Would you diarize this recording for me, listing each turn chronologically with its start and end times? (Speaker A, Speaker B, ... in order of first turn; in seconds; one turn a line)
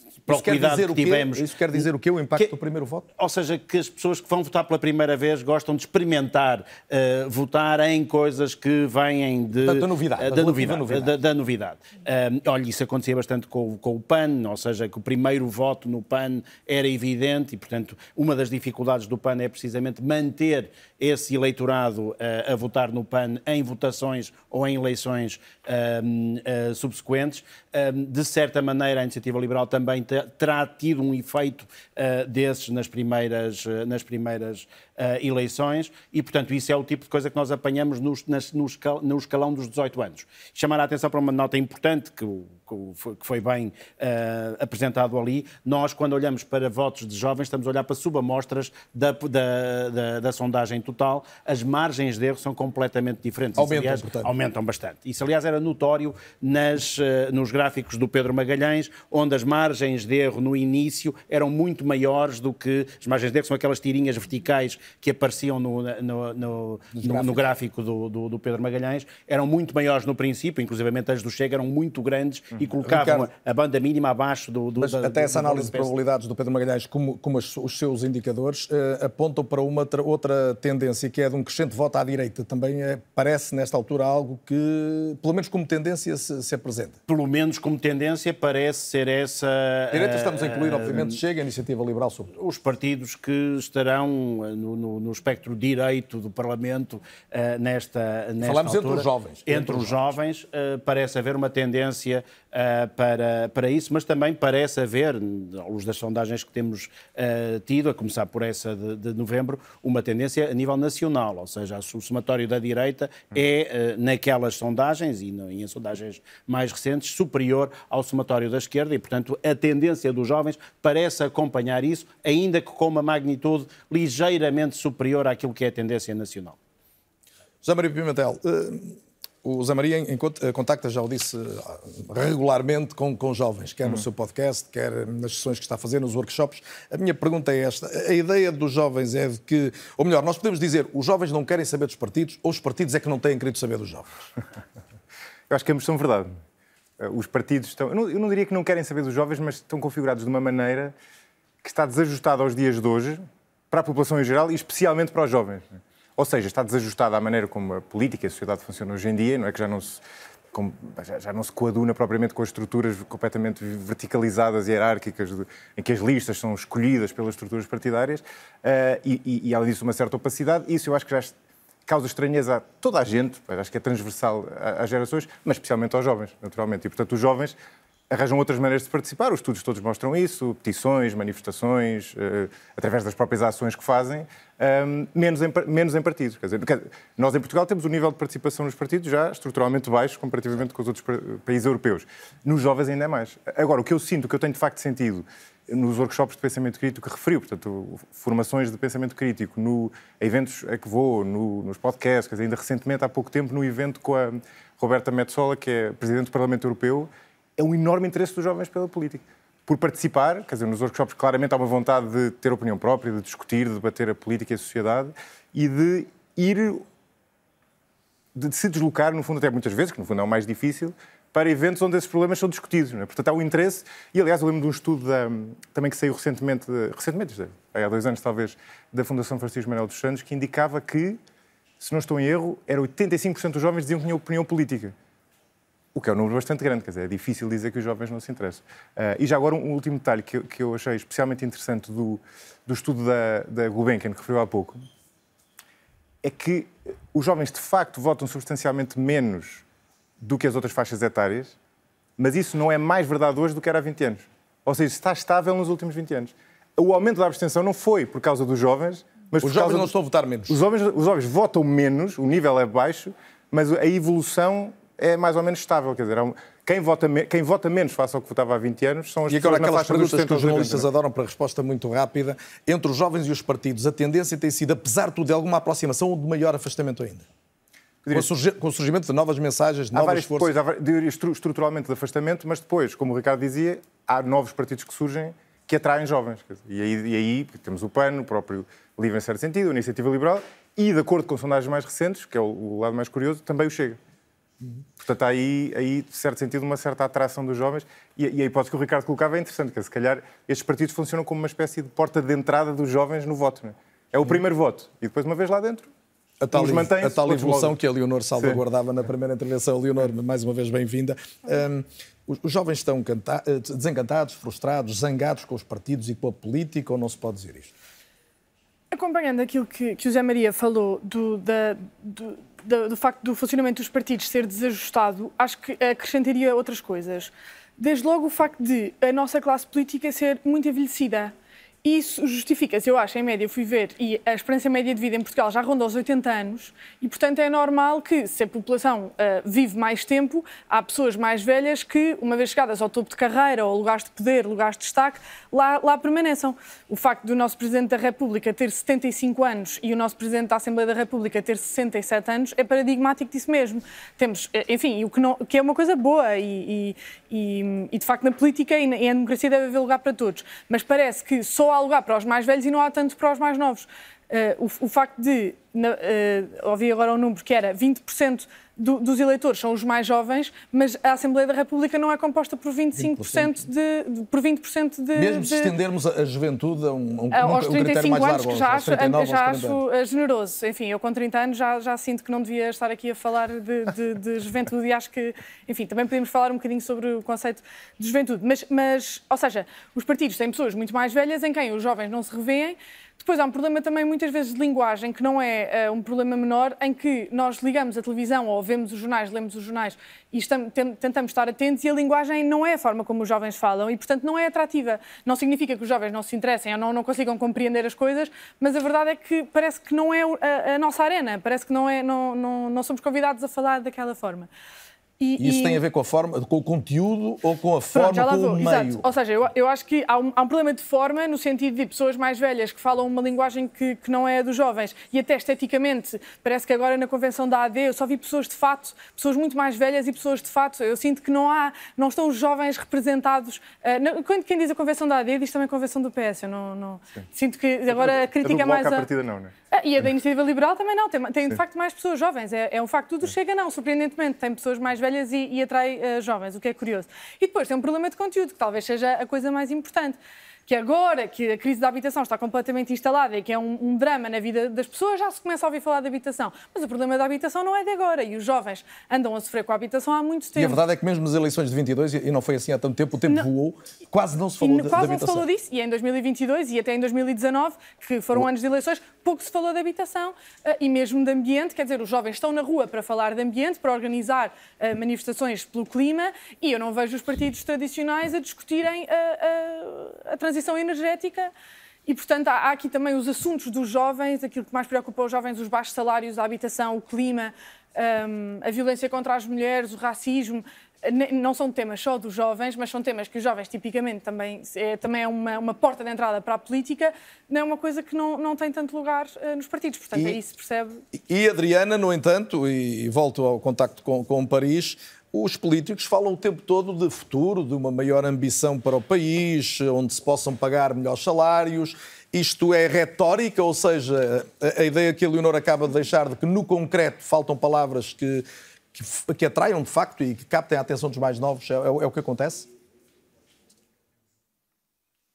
Speaker A: 0.2-1.8
Speaker B: 0.3-3.1
Speaker A: 3.2-75.9
Speaker B: 9.6-11.1
Speaker B: 53.5-54.3
Speaker B: 67.0-67.4
Speaker B: 72.8-73.3
Speaker B: 74.8-87.0
Speaker A: 87.1-91.2
Speaker B: 89.9-92.4
Speaker A: 92.4-126.6
Speaker B: 98.4-100.1
Speaker B: 127.6-144.1
Speaker C: 145.5-146.3
Speaker C: 147.0-150.9
Speaker C: 151.6-171.3
Speaker C: 171.8-177.6
Speaker C: 178.1-216.8
Speaker C: 218.3-231.2
Speaker C: 231.8-234.9
Speaker C: 235.9-244.8
Speaker C: 246.2-249.6
Speaker C: 250.2-251.6
Speaker C: 252.2-259.9
Speaker B: 259.4-260.6
Speaker C: 260.5-270.9
Speaker B: 269.3-277.3
Speaker C: 278.0-278.3
Speaker B: 278.1-280.5
Speaker C: 279.9-294.0
Speaker C: 295.0-305.9
Speaker B: 306.4-317.7
Speaker C: 306.5-307.8
Speaker D: 318.9-331.3
Speaker D: 331.8-375.8
Speaker B: 373.0-373.6
Speaker B: 375.1-379.8
Speaker D: 377.3-414.5
Speaker D: 415.2-415.8
Speaker B: 415.4-419.0
Speaker D: 417.9-439.1
Speaker C: 437.9-439.5
Speaker D: 439.7-460.8
Speaker B: 460.6-465.5
Speaker D: 464.6-481.5
Speaker D: 482.1-501.0
Speaker B: 501.1-522.7